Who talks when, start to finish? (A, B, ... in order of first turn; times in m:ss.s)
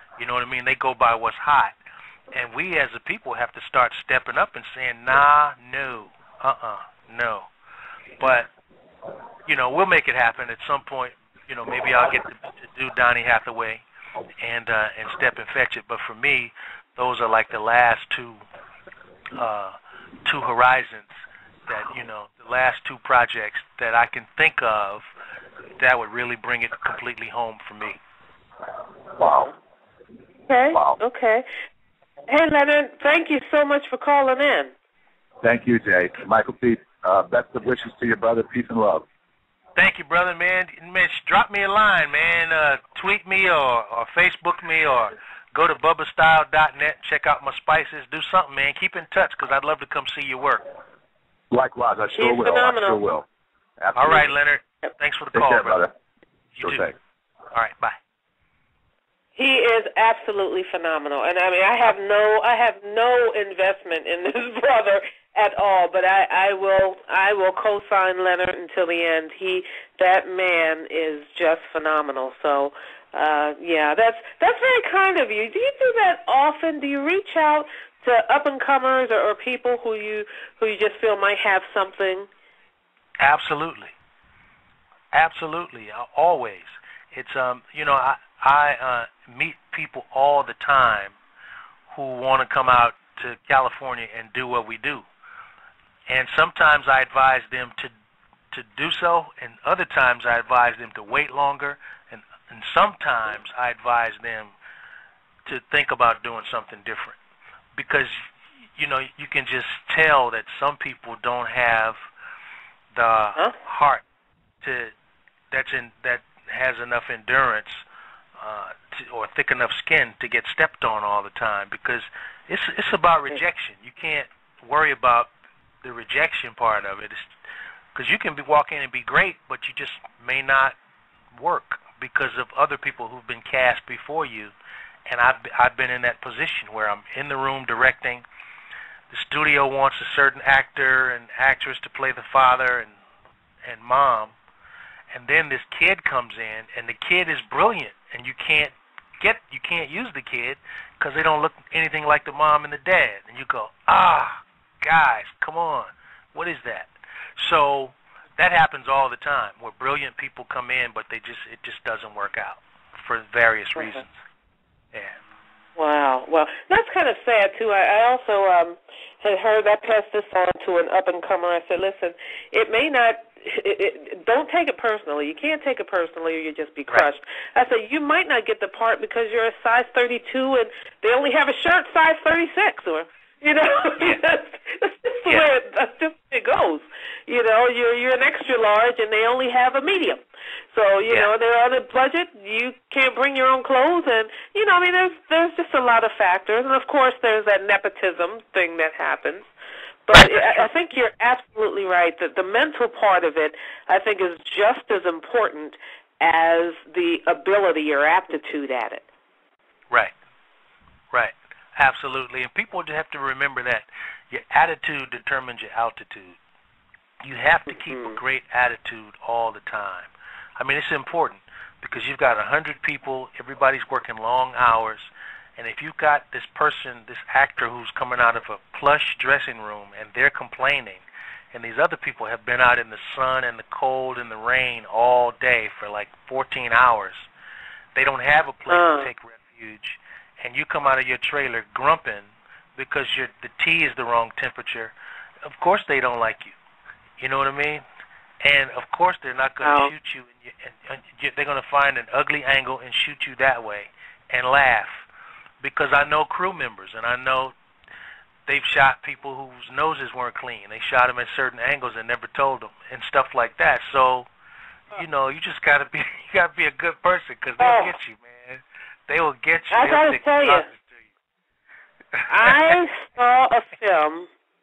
0:00.2-0:01.7 A
0:02.3-0:07.5 A
0:08.2-0:08.5 A
0:09.5-0:13.8 A
0:14.4-0:18.4 A
0:19.3-0:21.1 A
0:21.7-0:25.0 A
0:25.8-0:28.0 A
0:29.1-0:29.5 B
0:30.5-0:31.4 C
0:30.7-0:31.0 B
0:32.3-0:34.7 C
0:35.4-0:39.1 B
0:39.8-0:50.7 A
0:51.5-0:53.2 B
0:52.2-0:53.0 C
0:53.8-0:54.3 B
0:53.9-0:55.9 A
0:55.3-0:55.9 B
0:56.6-0:56.9 A
0:56.6-0:57.0 B
0:57.5-0:58.0 A
0:59.4-1:22.3 C
1:23.2-1:23.9 A
1:25.1-1:31.1 A
1:31.9-1:35.0 A
1:36.1-1:37.9 A
1:38.5-1:44.5 A
1:45.4-1:47.2 A
1:47.8-1:48.2 A
1:48.8-1:52.0 A
1:52.9-1:54.0 A
1:54.6-1:54.9 A
1:55.5-1:57.8 A
1:58.4-2:05.3 A
2:05.8-2:07.3 A
2:07.9-2:10.7 A
2:11.3-2:14.5 A
2:15.1-2:18.2 A
2:19.1-2:22.9 A
2:23.6-2:24.3 A
2:25.1-2:44.1 A
2:45.8-3:19.5 C
3:20.0-3:29.0 C
3:20.1-3:20.7 A
3:31.1-3:36.4 A
3:37.2-3:57.3 A
3:37.7-3:38.2 C
3:57.9-4:04.9 A
3:58.7-3:59.1 C
4:05.4-4:06.5 A
4:07.2-4:07.8 A
4:08.4-4:15.0 A
4:09.6-4:09.9 C
4:15.6-4:17.5 A
4:18.5-4:24.3 A
4:24.9-4:31.0 A
4:27.6-4:27.9 C
4:29.7-4:30.6 C
4:32.2-4:32.8 A
4:32.3-4:34.3 C